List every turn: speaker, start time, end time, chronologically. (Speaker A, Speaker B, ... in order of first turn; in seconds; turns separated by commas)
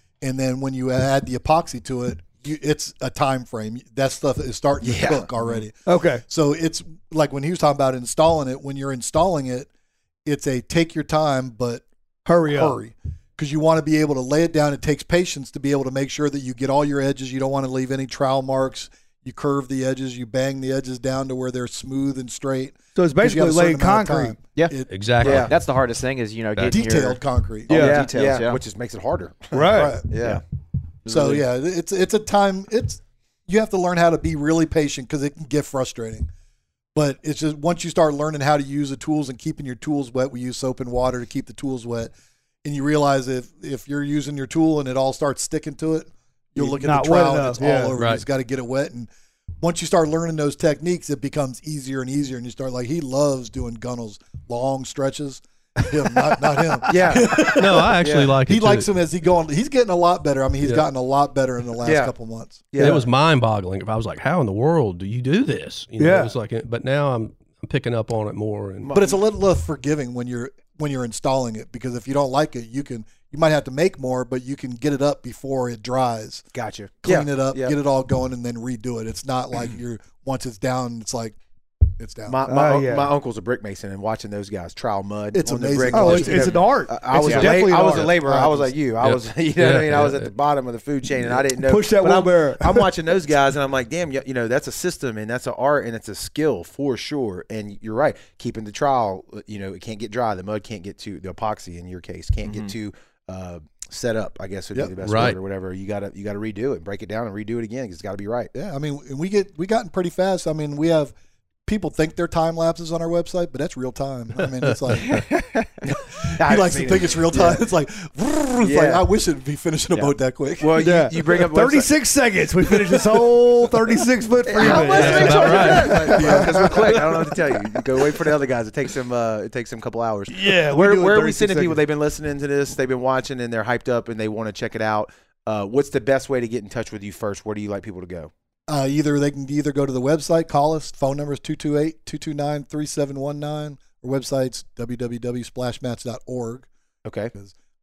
Speaker A: 0.2-9.7, Speaker B: 4.8-5.3, Speaker C: 5.9-6.2, Speaker A: 10.2-11.8, Speaker C: 12.3-12.8, Speaker A: 12.5-25.3, Speaker C: 23.0-24.4, Speaker D: 24.6-28.6, Speaker E: 24.9-25.5, Speaker B: 25.2-25.5, Speaker A: 26.6-27.9, Speaker C: 27.7-28.0, Speaker B: 27.7-30.4, Speaker C: 29.5-30.0, Speaker A: 29.7-30.1, Speaker D: 31.1-31.4, Speaker A: 31.1-36.3, Speaker A: 37.0-42.1, Speaker A: 42.6-62.8, Speaker C: 46.6-48.0, Speaker E: 48.0-48.2, Speaker B: 56.9-58.4, Speaker E: 57.5-58.9, Speaker B: 61.8-62.1, Speaker B: 62.7-63.0, Speaker E: 62.8-68.9, Speaker C: 66.0-66.3, Speaker B: 68.8-69.2, Speaker A: 68.9-76.4, Speaker B: 76.5-77.8, Speaker A: 77.0-81.4, Speaker A: 82.0-82.4, Speaker B: 82.3-108.5, Speaker C: 82.5-83.1, Speaker A: 85.3-88.8, Speaker C: 85.9-88.1, Speaker E: 89.0-90.3, Speaker C: 91.5-92.9, Speaker D: 102.4-102.7, Speaker E: 105.0-105.4, Speaker A: 108.5-111.1, Speaker A: 111.7-115.3, Speaker E: 114.6-115.2, Speaker B: 115.9-117.6, Speaker A: 116.1-120.8, Speaker B: 118.6-119.0, Speaker B: 119.9-121.9, Speaker C: 120.8-127.0, Speaker B: 124.5-138.3, Speaker E: 124.7-126.3, Speaker A: 126.1-126.9, Speaker C: 130.3-131.8, Speaker A: 138.7-146.7, Speaker B: 147.1-147.3